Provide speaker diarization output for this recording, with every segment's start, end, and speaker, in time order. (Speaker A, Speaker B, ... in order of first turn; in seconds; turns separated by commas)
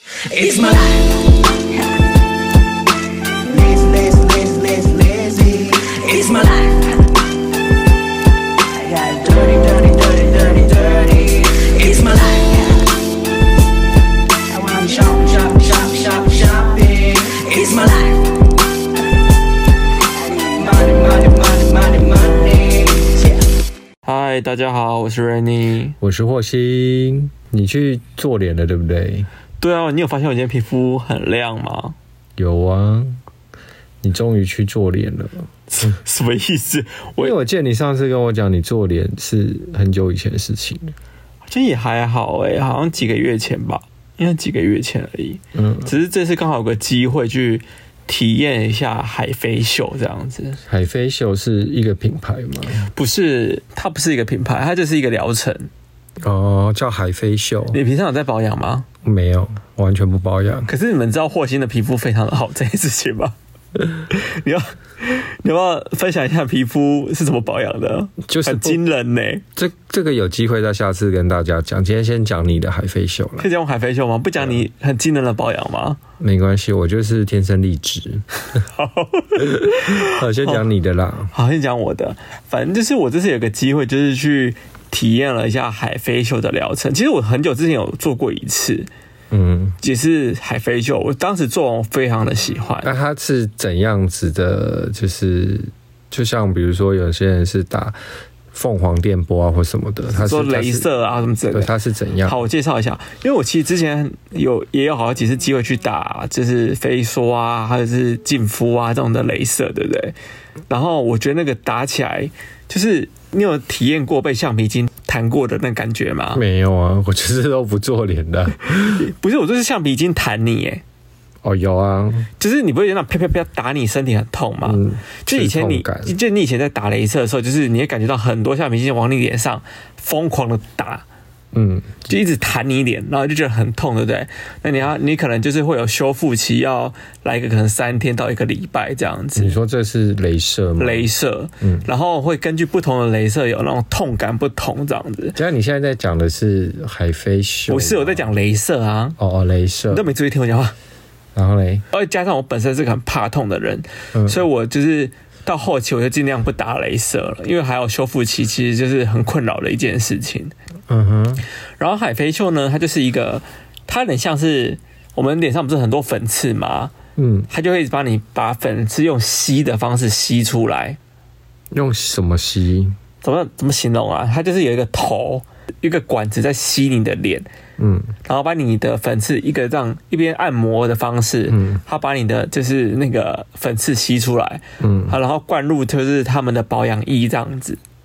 Speaker A: 0.2-1.4, Speaker A: 3.5-7.0, Speaker A: 8.7-13.0, Speaker A: 14.5-18.3, Speaker A: 20.3-23.4, Speaker B: 24.1-26.0, Speaker C: 26.0-29.3, Speaker B: 29.6-31.9, Speaker C: 32.4-33.2, Speaker C: 34.0-35.5, Speaker B: 35.7-37.3, Speaker C: 37.2-40.9, Speaker B: 41.5-50.6, Speaker C: 45.5-45.9, Speaker C: 50.6-52.9, Speaker B: 52.8-55.7, Speaker C: 56.2-57.8, Speaker B: 57.7-58.9, Speaker C: 59.0-60.7, Speaker B: 60.6-63.3, Speaker B: 64.0-69.4, Speaker C: 68.2-68.8, Speaker C: 69.5-73.5, Speaker B: 73.4-76.0, Speaker C: 76.2-78.2, Speaker B: 78.6-80.6, Speaker C: 79.5-81.3, Speaker B: 81.3-88.9, Speaker C: 89.3-89.8, Speaker B: 89.8-92.9, Speaker C: 92.8-98.0, Speaker C: 98.5-100.9, Speaker B: 100.1-101.7, Speaker C: 101.5-102.4, Speaker B: 102.2-110.1, Speaker B: 110.7-116.4, Speaker C: 116.3-119.0, Speaker B: 118.8-120.8, Speaker C: 121.4-122.3, Speaker B: 122.4-131.0, Speaker C: 124.6-126.1, Speaker C: 131.5-132.1, Speaker B: 132.1-139.6, Speaker C: 139.3-141.1, Speaker B: 140.8-145.4, Speaker C: 141.6-141.8, Speaker C: 145.3-148.3, Speaker B: 147.7-149.2, Speaker C: 149.2-150.0, Speaker B: 149.9-150.7, Speaker C: 151.3-151.8, Speaker B: 151.9-160.5, Speaker C: 154.1-154.4, Speaker C: 160.9-161.4, Speaker B: 161.8-166.9, Speaker C: 167.2-167.5, Speaker B: 167.5-171.0, Speaker C: 171.7-172.9, Speaker B: 173.2-177.5, Speaker C: 177.8-178.1, Speaker B: 178.2-187.8, Speaker C: 181.5-181.8, Speaker C: 184.8-185.1